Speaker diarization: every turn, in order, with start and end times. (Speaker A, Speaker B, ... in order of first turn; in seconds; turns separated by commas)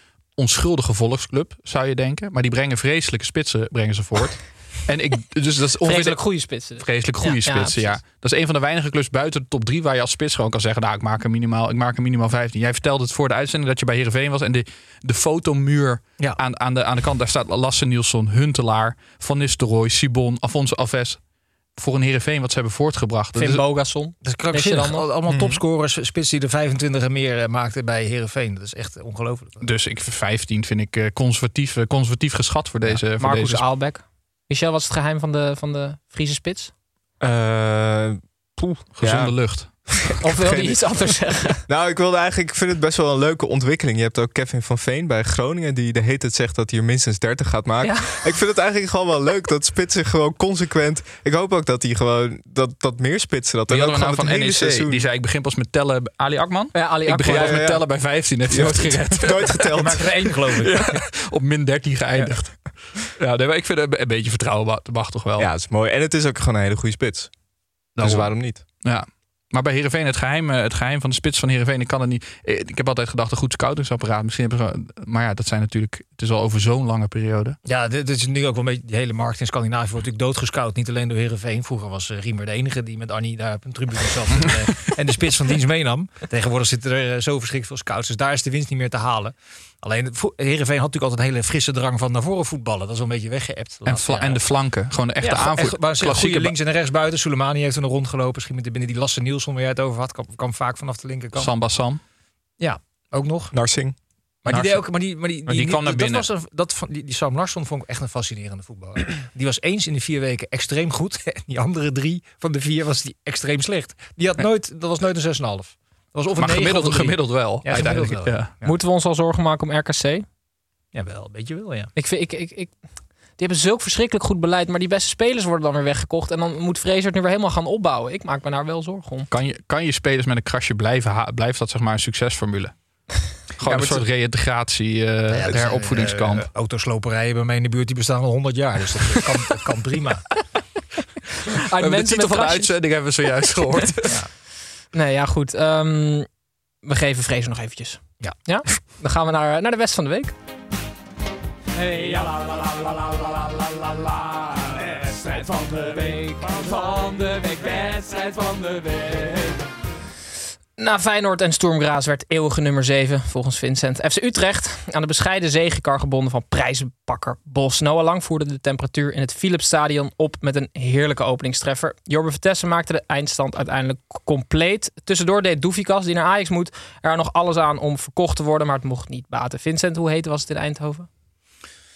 Speaker A: 0.3-21.2, Speaker B: 5.8-8.0, Speaker A: 21.8-23.6, Speaker B: 23.3-25.1, Speaker C: 24.2-29.7, Speaker D: 25.3-25.6, Speaker A: 29.6-33.7, Speaker B: 33.2-36.7, Speaker D: 37.2-41.1, Speaker A: 38.9-40.1, Speaker B: 40.2-41.6, Speaker D: 41.6-55.0, Speaker B: 47.8-48.3, Speaker A: 53.7-65.5, Speaker B: 56.7-57.6, Speaker D: 57.3-60.2, Speaker C: 59.8-61.0, Speaker D: 65.4-67.3, Speaker D: 67.9-68.6, Speaker A: 68.0-77.6, Speaker C: 77.6-94.4, Speaker A: 93.8-96.5, Speaker C: 95.2-101.5, Speaker A: 101.3-102.0, Speaker C: 102.6-103.5, Speaker D: 103.5-104.0, Speaker C: 104.4-118.7, Speaker A: 104.5-106.3, Speaker A: 116.4-118.5, Speaker B: 118.6-120.2, Speaker C: 120.9-121.9, Speaker B: 122.0-122.7, Speaker B: 123.3-129.3, Speaker A: 129.3-136.5, Speaker C: 133.7-134.0, Speaker C: 135.3-140.4, Speaker B: 141.7-142.8, Speaker A: 141.8-144.2, Speaker B: 144.9-146.3, Speaker B: 146.8-150.3, Speaker C: 148.2-148.8, Speaker E: 151.7-159.6, Speaker B: 160.8-181.1